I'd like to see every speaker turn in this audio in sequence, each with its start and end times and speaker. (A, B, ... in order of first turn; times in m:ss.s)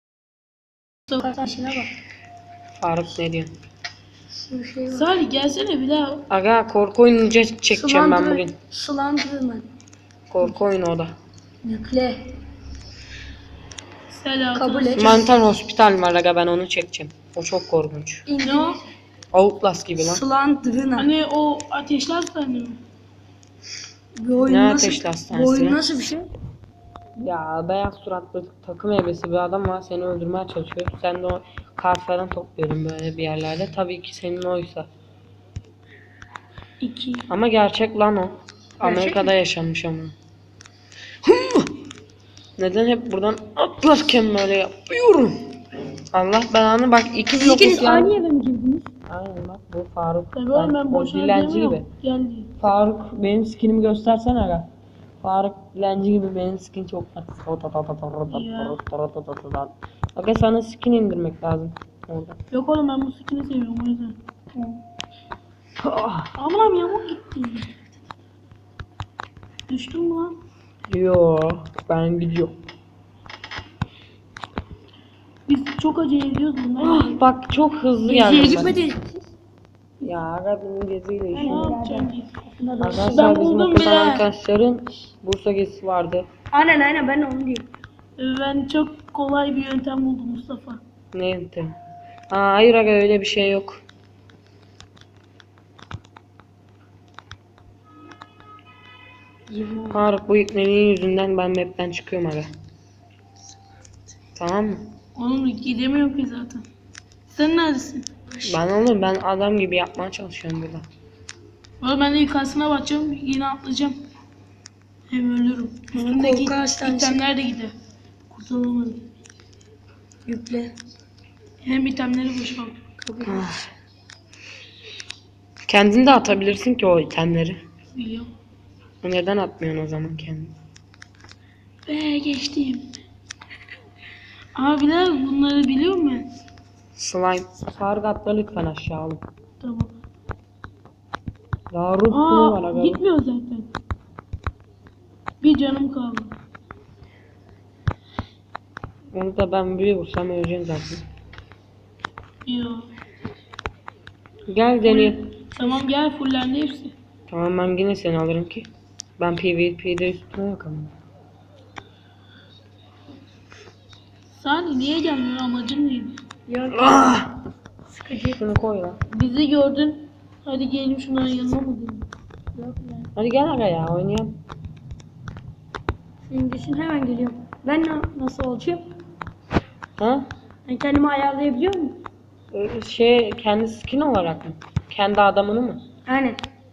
0:01.2-0:01.9 A
0:02.8-0:03.5 B
0:04.5-0:05.1 A
0:04.9-0:06.2 C
0:06.3-0:08.6 B
0:07.7-0:09.7 A
0:10.3-0:11.1 B
0:11.6-0:12.3 A
0:14.1-0:15.2 C
0:14.5-0:15.2 A
0:14.9-0:18.2 B
0:18.3-0:18.8 A
0:18.4-0:18.8 C
0:19.3-0:20.2 B
0:20.0-0:21.1 A
0:21.0-0:22.8 C
0:24.2-0:26.3 A
0:24.4-0:25.8 B
0:27.2-0:34.9 B
0:37.3-0:40.2 B
0:38.8-0:39.3 C
0:42.6-0:45.4 B
0:46.1-0:48.1 B
0:47.3-0:48.9 A
0:49.1-0:51.9 B
0:50.4-0:52.5 C
0:52.6-0:54.7 B
0:55.2-1:02.4 B
0:58.3-0:58.8 C
1:02.5-1:04.2 C
1:05.8-1:06.3 B
1:06.4-1:07.8 C
1:09.7-1:10.4 C
1:10.9-1:12.5 B
1:15.5-1:17.2 C
1:16.8-1:18.8 B
1:18.0-1:19.2 A
1:20.0-1:21.7 B
1:21.3-1:23.4 A
1:21.3-1:22.3 C
1:22.8-1:26.3 B
1:23.0-1:24.3 C
1:26.5-1:27.7 A
1:28.2-1:30.8 C
1:31.1-1:31.7 B
1:32.3-1:33.8 B
1:39.5-1:40.0 A
1:39.9-1:42.5 B
1:44.4-1:44.9 B
1:45.2-1:46.6 C
1:47.3-1:48.1 C
1:48.5-1:50.9 B
1:51.8-1:54.0 C
1:55.1-1:57.7 C
1:55.9-1:57.2 A
1:58.3-1:59.1 C
2:00.3-2:00.7 A
2:01.6-2:02.8 C
2:03.0-2:03.5 A
2:03.2-2:03.7 B
2:05.7-2:07.6 B
2:07.9-2:08.3 C
2:09.0-2:10.6 B
2:11.9-2:12.9 C
2:14.6-2:16.3 C
2:17.0-2:19.2 B
2:19.6-2:19.9 C
2:21.7-2:23.0 B
2:22.1-2:23.7 C
2:25.4-2:26.3 C
2:29.1-2:31.0 B
2:32.4-2:32.9 C
2:34.5-2:35.3 B
2:34.8-2:36.9 C
2:37.3-2:40.9 B
2:44.4-2:46.2 C
2:46.5-2:47.2 A
2:46.7-2:47.3 B
2:47.9-2:48.4 A
2:48.3-2:49.0 B
2:49.1-2:52.1 C
2:52.6-2:53.1 A
2:53.2-2:54.3 B
2:56.3-2:58.8 A
3:00.0-3:00.3 B
3:00.7-3:02.0 A
3:02.5-3:05.8 B
3:06.1-3:06.4 A